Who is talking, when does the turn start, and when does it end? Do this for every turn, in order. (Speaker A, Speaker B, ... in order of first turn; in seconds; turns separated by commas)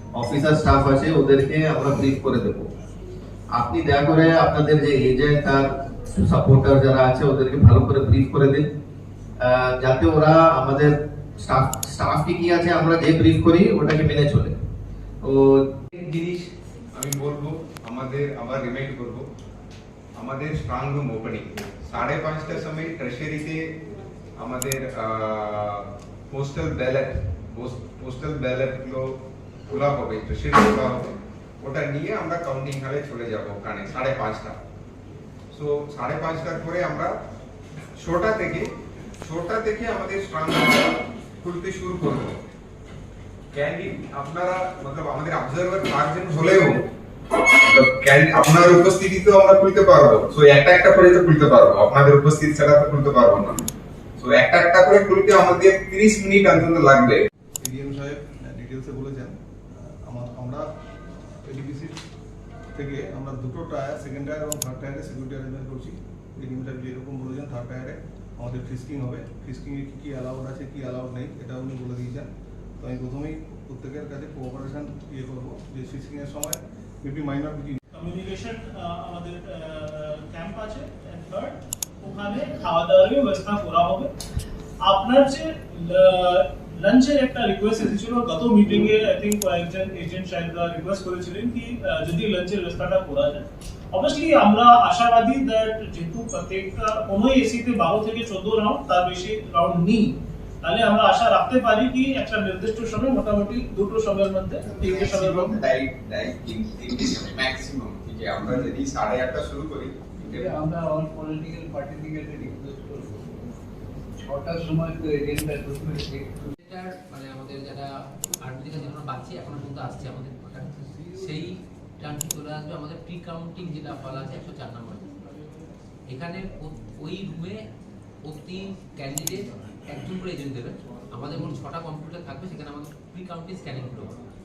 Speaker A: 0.2-2.7, Speaker A: 3.5-8.6, Speaker A: 9.4-14.5, Speaker A: 15.2-15.6, Speaker B: 16.0-19.2, Speaker B: 20.2-23.6, Speaker B: 24.4-29.1, Speaker B: 29.7-34.6, Speaker B: 35.5-37.1, Speaker B: 38.0-38.6, Speaker B: 39.2-42.4, Speaker B: 43.5-46.7, Speaker B: 47.7-53.6, Speaker B: 54.2-57.2, Speaker C: 57.6-60.6, Speaker C: 61.5-61.9, Speaker C: 62.8-77.8, Speaker D: 77.9-84.1, Speaker D: 84.8-105.6, Speaker B: 104.7-110.5, Speaker E: 110.3-113.3, Speaker E: 114.2-116.5, Speaker F: 116.6-117.9, Speaker F: 118.4-125.1, Speaker F: 126.1-127.6, Speaker F: 128.2-134.1